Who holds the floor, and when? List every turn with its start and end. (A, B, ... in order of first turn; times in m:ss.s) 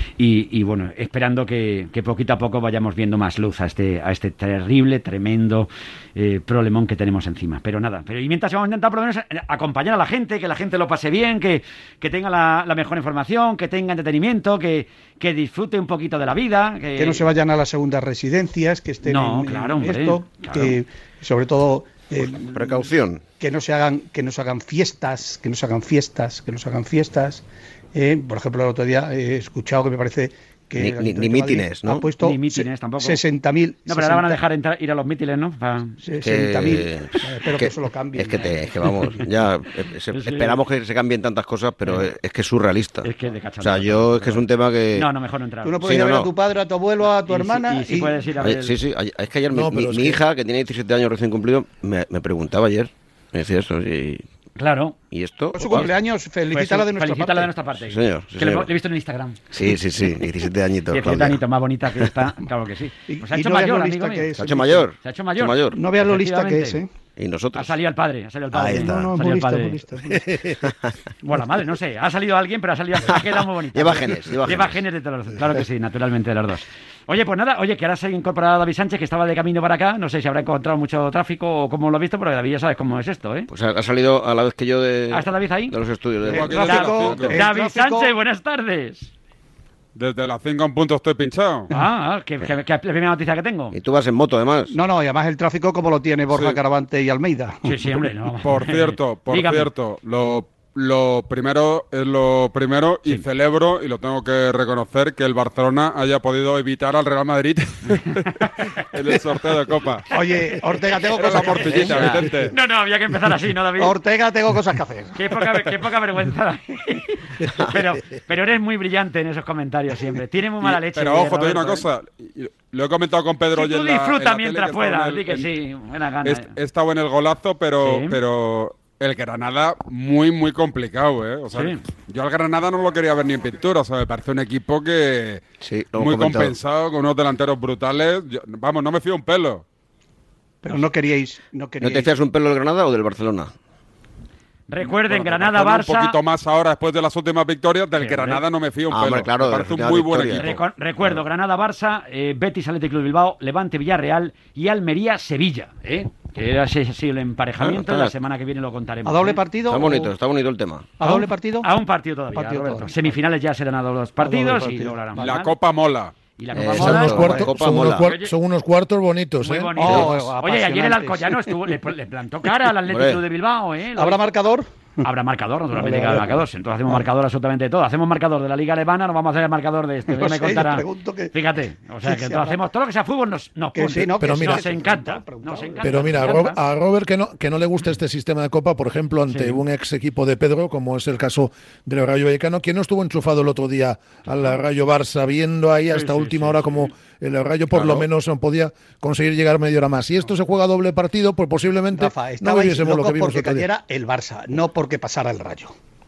0:00.2-0:17.2 A
0:17.0-0:22.7 B
0:19.0-0:20.8 A
0:22.2-0:23.2 C
0:23.4-0:34.4 B
0:30.8-0:32.0 C
0:32.2-0:33.2 A
0:33.9-0:36.0 A
0:36.0-0:39.2 B
0:36.2-0:43.1 C
0:40.1-0:40.6 A
0:43.0-0:44.4 A
0:43.6-0:45.1 C
0:44.9-0:45.8 A
0:45.6-0:48.2 B
0:45.8-0:46.3 C
0:47.1-0:48.7 A
0:48.4-0:54.2 C
0:49.5-0:50.2 D
0:54.6-0:55.0 A
0:55.1-0:55.9 C
0:55.6-0:57.5 B
0:56.5-0:59.5 A
0:57.9-0:58.7 C
0:59.5-1:01.4 C
1:00.9-1:04.3 A
1:03.1-1:04.9 B
1:04.4-1:05.8 C
1:05.0-1:06.8 A
1:05.7-1:06.9 B
1:07.2-1:07.7 C
1:07.5-1:09.8 A
1:08.5-1:09.1 C
1:08.6-1:10.2 B
1:10.1-1:10.6 D
1:10.6-1:10.9 C
1:11.2-1:23.5 A
1:13.1-1:14.8 C
1:23.5-1:26.7 C
1:25.1-1:25.7 A
1:26.2-1:28.1 B
1:26.3-1:27.4 E
1:26.5-1:29.1 A
1:30.0-1:31.7 E
1:31.7-1:33.8 A
1:33.7-1:34.7 C
1:34.7-1:37.8 B
1:36.3-1:36.6 E
1:37.6-1:39.7 A
1:38.4-1:50.1 E
1:48.4-1:48.6 A
1:50.1-1:52.5 B
1:51.2-1:52.5 E
1:51.3-1:53.9 A
1:53.8-1:55.2 B
1:55.2-2:01.8 A
2:00.6-2:05.5 E
2:03.5-2:06.5 A
2:06.2-2:15.4 E
2:07.8-2:08.2 A
2:11.5-2:11.8 A
2:15.6-2:16.6 C
2:16.0-2:19.6 E
2:20.6-2:22.1 B
2:21.8-2:23.5 C
2:24.7-2:26.1 A
2:25.0-2:30.5 E
2:28.0-2:28.4 A
2:28.9-2:31.2 C
2:30.4-2:39.4 A
2:37.6-2:38.1 C
2:39.0-2:40.1 B
2:39.7-2:41.0 C
2:41.0-2:41.7 B
2:41.0-2:45.5 A
2:42.3-2:43.2 B
2:44.2-2:44.9 B
2:45.2-2:46.1 E
2:46.4-2:47.5 A
2:46.5-2:48.1 C
2:46.7-2:50.2 D
2:47.2-2:47.5 B
2:48.0-2:48.3 A
2:49.4-2:54.2 A
2:49.8-2:51.6 B
2:52.9-2:53.2 C
2:54.0-2:55.0 B
2:55.0-3:06.6 A
2:55.7-2:57.0 B
3:00.1-3:01.3 B
3:02.0-3:02.6 B
3:03.7-3:06.5 B
3:04.2-3:04.8 D
3:05.8-3:23.7 D
3:09.3-3:09.6 A
3:15.9-3:16.9 A
3:21.9-3:25.7 B